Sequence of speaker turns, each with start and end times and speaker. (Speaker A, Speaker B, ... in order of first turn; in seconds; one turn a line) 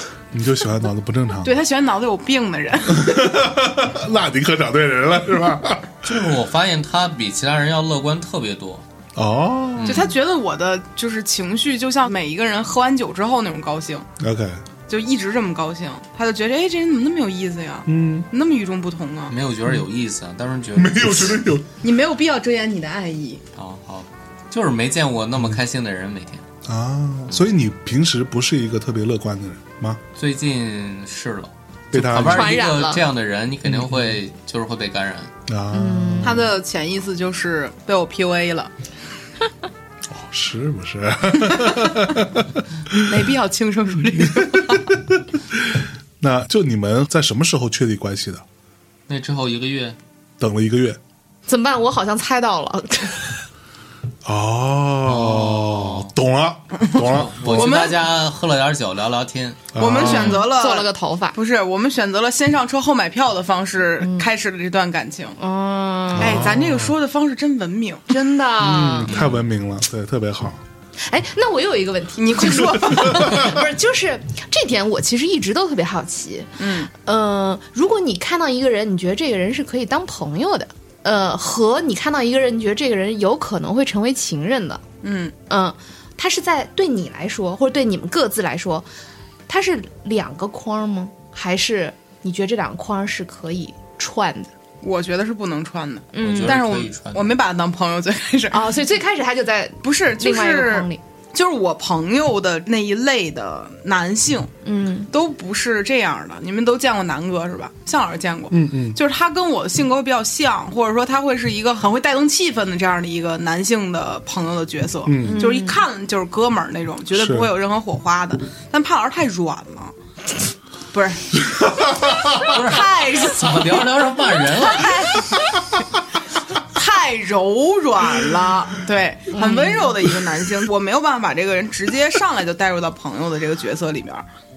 Speaker A: 0.3-1.6
Speaker B: 1.4-3.4
Speaker A: 2.9-6.3
Speaker C: 6.0-8.8
Speaker A: 9.1-10.1
Speaker C: 9.8-10.2
Speaker B: 9.8-14.1
Speaker A: 14.2-14.6
Speaker B: 14.9-19.3
Speaker A: 17.9-18.3
Speaker C: 19.3-21.4
Speaker A: 20.8-21.7
Speaker B: 21.8-23.4
Speaker C: 23.5-26.4
Speaker A: 26.6-30.0
Speaker C: 30.1-35.3
Speaker A: 31.9-32.6
Speaker D: 32.2-33.0
Speaker A: 33.6-34.1
Speaker A: 35.5-36.5
Speaker D: 35.7-36.5
Speaker B: 36.2-38.7
Speaker A: 40.1-43.1
Speaker B: 43.0-44.9
Speaker A: 44.2-48.4
Speaker C: 49.1-50.0
Speaker A: 50.4-51.0
Speaker D: 51.5-53.4
Speaker A: 54.2-57.8
Speaker C: 55.0-56.1
Speaker B: 56.9-58.0
Speaker C: 56.9-59.7
Speaker A: 59.7-60.4
Speaker B: 59.8-65.4
Speaker D: 59.9-61.4
Speaker D: 64.0-64.3
Speaker D: 65.4-66.5
Speaker A: 66.1-67.0
Speaker B: 66.2-68.1
Speaker D: 68.1-69.1
Speaker A: 68.6-70.6
Speaker C: 69.1-69.4
Speaker D: 71.0-84.8
Speaker B: 72.2-73.6
Speaker A: 73.0-73.5
Speaker B: 76.6-76.9
Speaker B: 85.0-85.3
Speaker D: 85.5-88.9
Speaker D: 89.5-94.5
Speaker B: 94.8-98.7
Speaker D: 96.1-96.6
Speaker C: 96.2-97.3
Speaker D: 98.5-101.0
Speaker B: 99.8-104.5
Speaker D: 104.6-105.1
Speaker B: 105.1-119.9
Speaker A: 108.5-109.0
Speaker A: 115.0-115.4
Speaker D: 115.2-115.8
Speaker A: 117.1-117.5
Speaker B: 120.9-123.9
Speaker A: 121.8-122.6
Speaker C: 122.4-125.1
Speaker B: 124.4-125.5
Speaker B: 126.6-134.2
Speaker D: 129.3-129.9